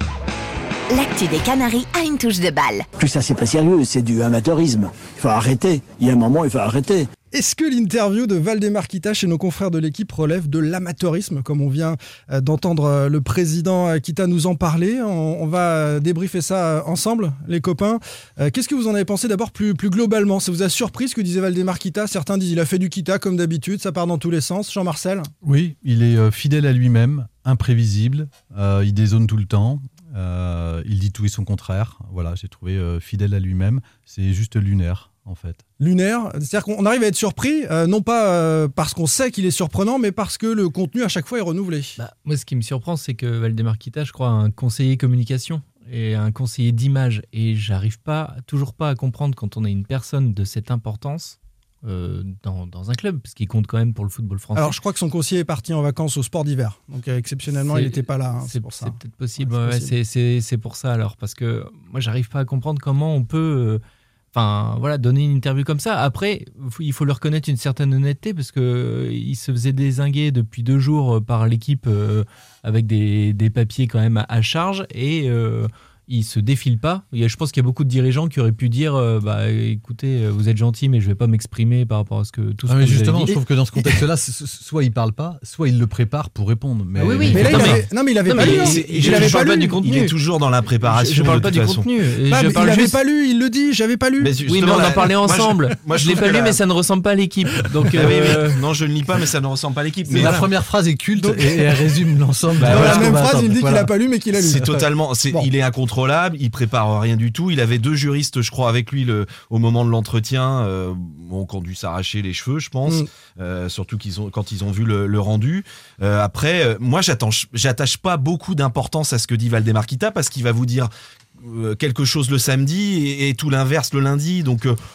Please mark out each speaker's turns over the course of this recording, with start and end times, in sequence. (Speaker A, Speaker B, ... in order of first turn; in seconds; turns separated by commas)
Speaker A: 0.9-2.9, Speaker B: 3.0-7.0, Speaker C: 7.3-25.3, Speaker D: 25.4-35.6, Speaker C: 35.8-42.0, Speaker E: 42.0-54.8, Speaker C: 54.5-59.9, Speaker E: 57.7-63.8, Speaker E: 64.3-83.3, Speaker D: 82.7-87.8, Speaker C: 83.3-84.0, Speaker E: 87.0-90.1, Speaker C: 87.2-90.0, Speaker F: 87.3-87.8, Speaker F: 88.3-91.8, Speaker E: 90.8-93.0, Speaker C: 92.3-94.3, Speaker F: 94.2-96.6, Speaker E: 94.5-98.6, Speaker F: 97.9-100.5, Speaker D: 100.1-103.9, Speaker C: 101.2-101.8, Speaker C: 102.6-105.5, Speaker F: 102.6-103.3, Speaker F: 104.3-124.8